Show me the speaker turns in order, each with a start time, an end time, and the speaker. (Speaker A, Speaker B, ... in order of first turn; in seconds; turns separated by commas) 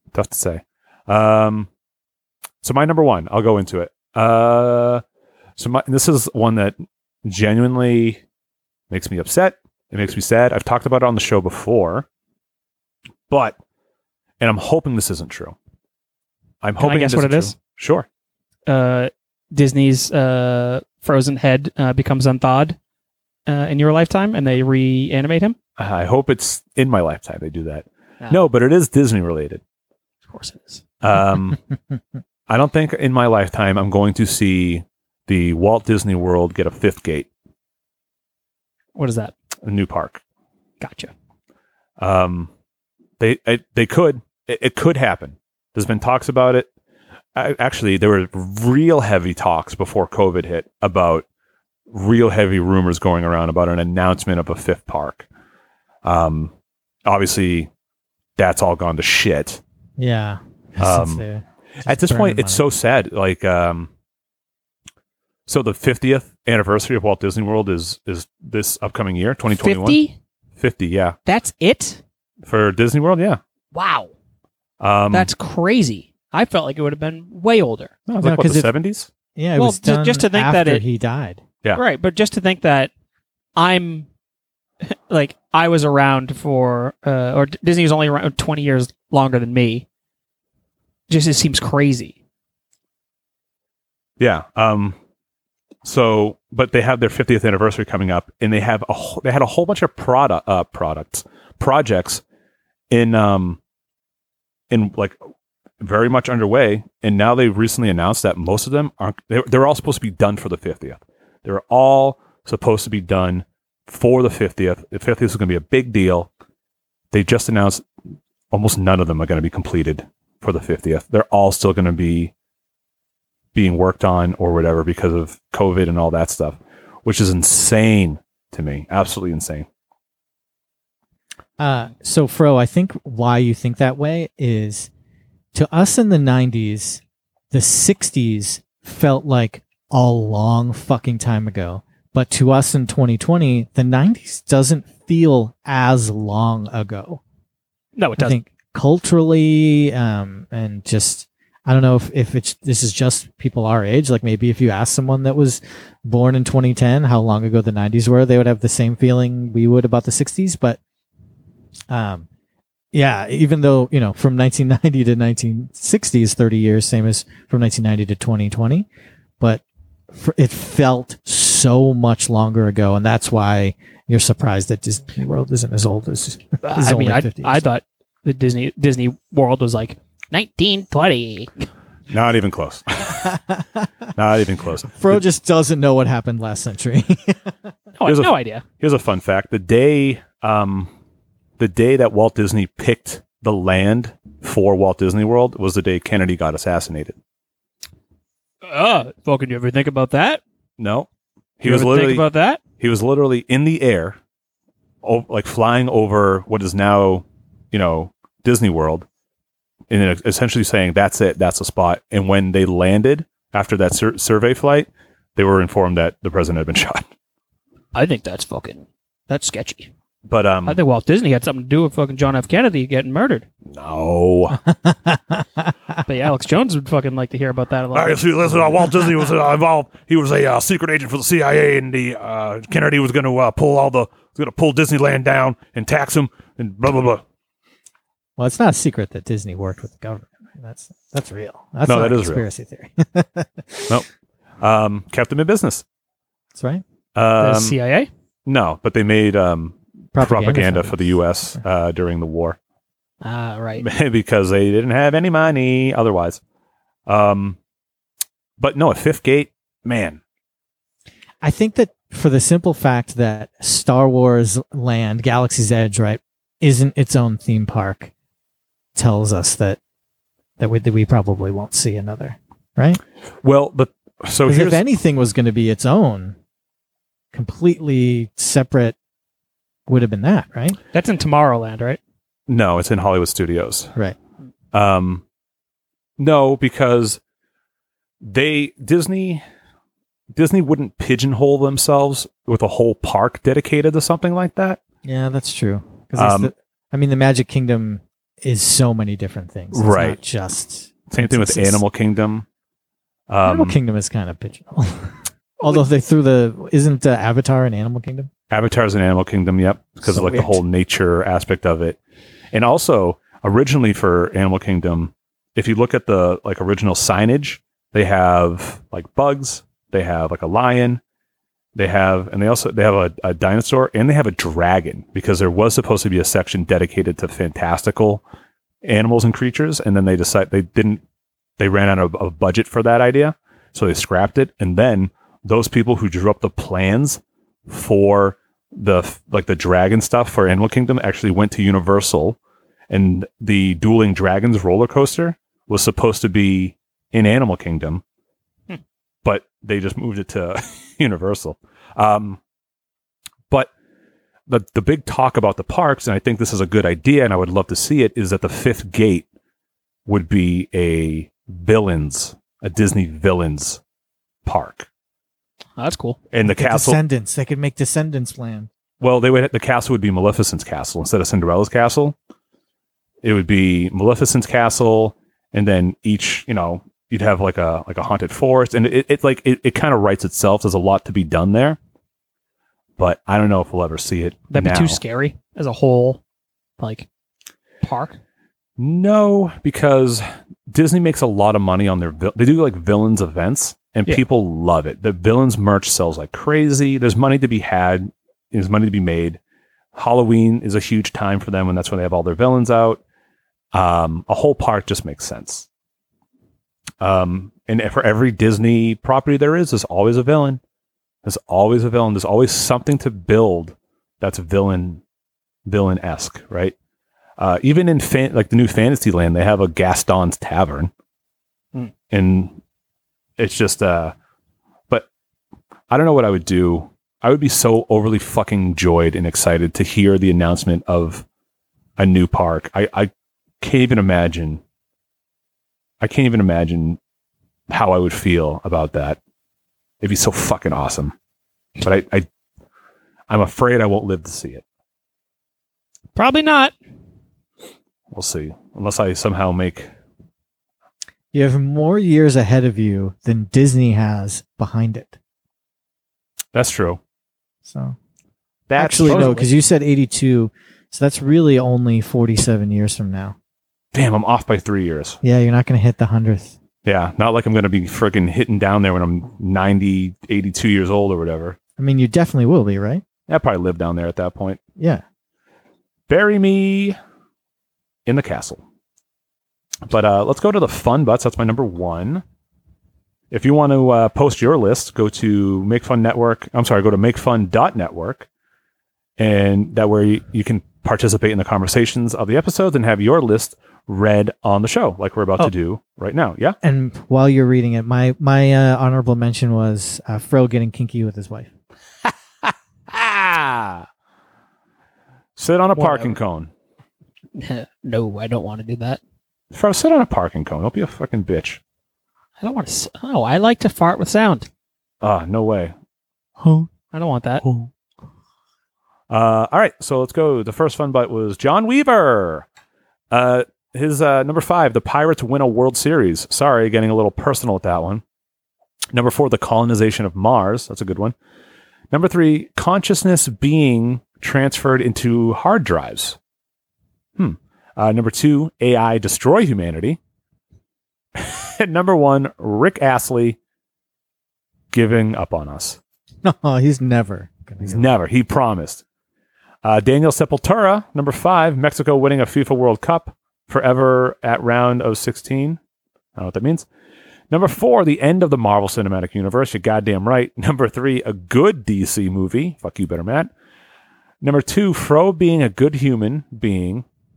Speaker A: 0.1-1.7, Speaker A: 2.6-5.0, Speaker A: 5.6-8.2, Speaker A: 8.9-12.1, Speaker A: 13.3-13.6, Speaker A: 14.4-15.6, Speaker A: 16.6-18.1, Speaker B: 16.8-17.5, Speaker B: 18.7-22.8, Speaker B: 23.5-25.6, Speaker A: 25.8-29.6, Speaker B: 30.3-30.8, Speaker A: 31.0-31.6, Speaker A: 32.5-37.3, Speaker B: 39.0-39.3, Speaker A: 39.6-40.2, Speaker B: 40.8-41.1, Speaker A: 42.0-42.5, Speaker A: 43.2-46.7, Speaker A: 47.4-51.2, Speaker A: 51.9-55.3, Speaker A: 56.0-56.5, Speaker A: 57.0-57.7, Speaker A: 58.4-59.6, Speaker C: 60.0-62.6, Speaker A: 60.8-61.2, Speaker A: 61.8-63.9, Speaker A: 65.5-70.0, Speaker B: 69.6-70.2, Speaker A: 70.6-71.2, Speaker B: 71.3-72.0, Speaker A: 72.4-73.4, Speaker B: 73.7-74.1, Speaker A: 74.8-75.3, Speaker B: 75.1-77.9, Speaker A: 78.1-79.1, Speaker C: 78.2-78.7, Speaker C: 79.3-81.4, Speaker B: 79.6-80.8, Speaker B: 81.8-82.9, Speaker B: 83.6-84.1, Speaker B: 84.8-89.9, Speaker B: 91.1-92.2, Speaker A: 94.2-95.0, Speaker A: 95.8-102.2, Speaker A: 102.9-103.6, Speaker A: 104.7-105.2, Speaker A: 105.8-116.3, Speaker A: 117.1-117.8, Speaker A: 118.5-122.3, Speaker A: 123.5-129.7, Speaker C: 131.6-134.9, Speaker C: 135.5-137.0, Speaker C: 137.5-147.2, Speaker B: 148.0-148.4, Speaker C: 148.2-160.8, Speaker C: 161.9-162.3, Speaker C: 162.9-168.9, Speaker C: 169.4-177.6, Speaker B: 176.6-181.7, Speaker A: 182.1-183.4, Speaker C: 183.2-183.9, Speaker A: 184.2-185.2, Speaker C: 184.9-187.5, Speaker B: 188.0-188.6, Speaker A: 188.1-190.9, Speaker A: 191.6-197.2, Speaker B: 198.6-200.4, Speaker A: 200.8-201.1, Speaker A: 201.6-202.3, Speaker B: 201.6-202.6, Speaker A: 202.8-204.2, Speaker A: 205.0-209.1, Speaker A: 209.9-217.0, Speaker B: 217.9-219.9, Speaker A: 220.2-220.8, Speaker B: 220.7-223.5, Speaker A: 223.7-224.6, Speaker C: 224.8-225.4, Speaker B: 226.1-228.6, Speaker A: 227.9-237.2, Speaker C: 238.4-244.0, Speaker A: 241.8-242.4, Speaker A: 244.6-245.8, Speaker C: 246.6-246.8, Speaker A: 247.2-247.8, Speaker B: 247.4-248.1, Speaker A: 248.5-252.6, Speaker C: 250.2-251.2, Speaker B: 253.2-253.8, Speaker A: 253.8-256.4, Speaker A: 257.1-257.6, Speaker A: 258.6-260.2, Speaker C: 261.4-268.1, Speaker C: 269.0-269.8, Speaker C: 270.6-273.0, Speaker A: 273.4-274.8, Speaker C: 274.5-276.4, Speaker C: 277.3-279.0, Speaker C: 279.9-280.8, Speaker B: 280.9-282.0, Speaker A: 282.5-283.9, Speaker A: 284.7-285.2, Speaker A: 286.2-287.2, Speaker A: 288.2-289.4, Speaker A: 290.3-294.8, Speaker C: 295.0-301.8, Speaker A: 296.2-296.5, Speaker A: 299.7-300.2, Speaker A: 301.1-302.4, Speaker A: 303.3-303.7, Speaker C: 303.5-308.3, Speaker A: 308.5-312.0, Speaker C: 310.1-310.6, Speaker A: 312.5-321.0, Speaker A: 321.8-328.2, Speaker A: 328.8-331.0, Speaker A: 331.6-342.4, Speaker A: 342.9-348.0, Speaker A: 349.2-352.4, Speaker A: 354.5-359.3, Speaker A: 360.1-363.8, Speaker A: 364.4-364.9, Speaker B: 365.8-366.2, Speaker A: 366.3-367.0, Speaker C: 366.4-368.7, Speaker A: 369.0-372.1, Speaker A: 373.2-381.8, Speaker A: 383.0-385.0, Speaker B: 384.5-386.2, Speaker B: 386.8-387.1, Speaker B: 387.8-388.2, Speaker A: 388.8-399.4, Speaker A: 399.9-403.0, Speaker A: 403.7-405.7, Speaker A: 407.0-410.6, Speaker A: 411.2-415.0, Speaker A: 415.7-416.7, Speaker A: 417.4-420.9, Speaker A: 422.1-422.6, Speaker A: 423.4-424.1, Speaker A: 425.9-431.2, Speaker A: 432.0-434.6, Speaker A: 436.0-437.0, Speaker A: 437.7-439.2, Speaker A: 440.0-441.1, Speaker A: 441.8-442.3, Speaker A: 443.3-444.6, Speaker B: 446.1-446.7, Speaker A: 448.1-449.9, Speaker C: 451.3-455.2, Speaker A: 456.5-457.0, Speaker C: 457.6-458.0, Speaker A: 458.7-459.4, Speaker C: 458.8-463.4, Speaker B: 459.1-459.5, Speaker A: 463.9-465.2, Speaker C: 465.2-466.6, Speaker A: 466.9-471.6, Speaker C: 471.8-473.0, Speaker A: 473.3-474.6, Speaker C: 474.8-475.0, Speaker A: 476.1-477.0, Speaker A: 478.1-478.6, Speaker A: 479.9-482.2, Speaker A: 483.3-488.3, Speaker A: 489.2-496.6, Speaker C: 496.6-501.5, Speaker A: 502.4-503.9, Speaker A: 505.4-506.5, Speaker B: 505.8-506.2, Speaker B: 507.4-509.0, Speaker A: 509.5-511.6, Speaker B: 512.4-514.5, Speaker A: 515.0-515.7, Speaker B: 516.9-517.4, Speaker A: 517.4-517.7, Speaker A: 519.1-522.5, Speaker A: 523.1-528.0, Speaker A: 528.9-531.1, Speaker A: 531.9-536.2, Speaker A: 537.2-540.0, Speaker A: 541.1-543.4, Speaker A: 544.7-545.8, Speaker C: 546.2-547.9, Speaker A: 547.6-548.8, Speaker A: 549.6-555.6, Speaker A: 556.2-556.7, Speaker A: 557.3-563.3, Speaker A: 564.2-566.9